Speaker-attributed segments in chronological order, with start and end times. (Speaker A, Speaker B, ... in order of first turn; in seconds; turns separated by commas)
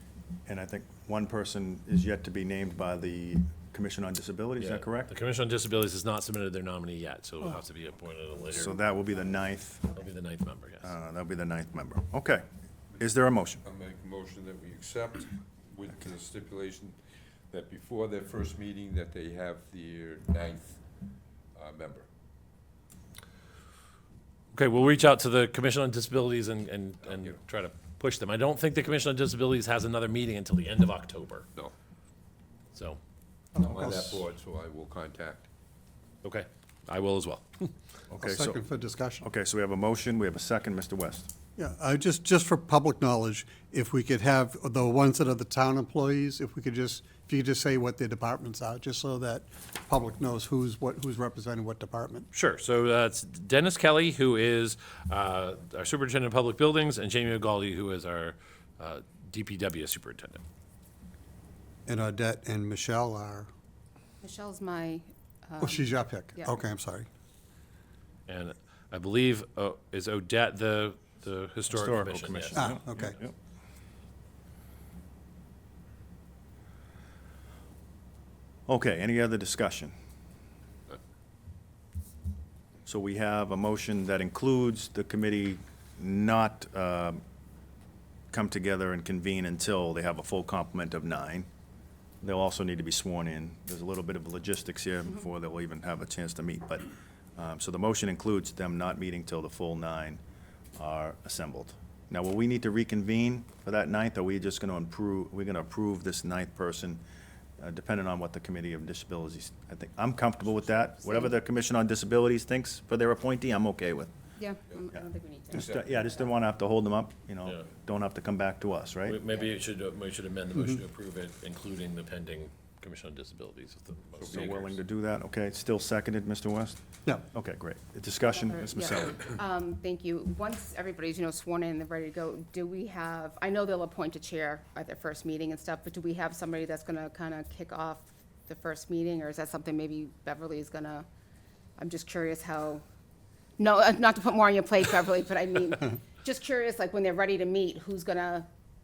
Speaker A: 0.5-5.1, Speaker B: 4.6-8.8, Speaker A: 8.5-9.9, Speaker B: 9.9-10.9, Speaker A: 10.8-12.4, Speaker A: 13.0-13.6, Speaker C: 13.6-17.0, Speaker C: 17.5-20.8, Speaker C: 21.5-22.1, Speaker B: 24.5-31.5, Speaker C: 27.0-27.4, Speaker B: 32.7-33.0, Speaker D: 33.5-34.2, Speaker C: 33.5-35.5, Speaker B: 36.2-37.7, Speaker A: 38.1-38.6, Speaker D: 38.2-39.3, Speaker A: 39.2-41.3, Speaker D: 41.6-52.3, Speaker B: 52.3-60.4, Speaker D: 61.9-63.5, Speaker E: 64.2-66.5, Speaker D: 65.6-67.1, Speaker B: 68.3-72.8, Speaker A: 71.7-73.3, Speaker D: 72.5-73.2, Speaker A: 78.7-79.9, Speaker A: 82.8-87.2, Speaker A: 88.3-91.5, Speaker A: 92.2-100.2, Speaker A: 100.8-107.0, Speaker A: 107.6-114.1, Speaker E: 111.0-111.3, Speaker E: 114.4-116.0, Speaker A: 114.9-119.2, Speaker C: 115.5-115.9, Speaker B: 119.1-124.7, Speaker C: 124.2-124.6, Speaker A: 124.3-126.8, Speaker A: 127.3-129.2, Speaker E: 128.4-141.1, Speaker E: 141.8-142.8, Speaker E: 143.6-148.5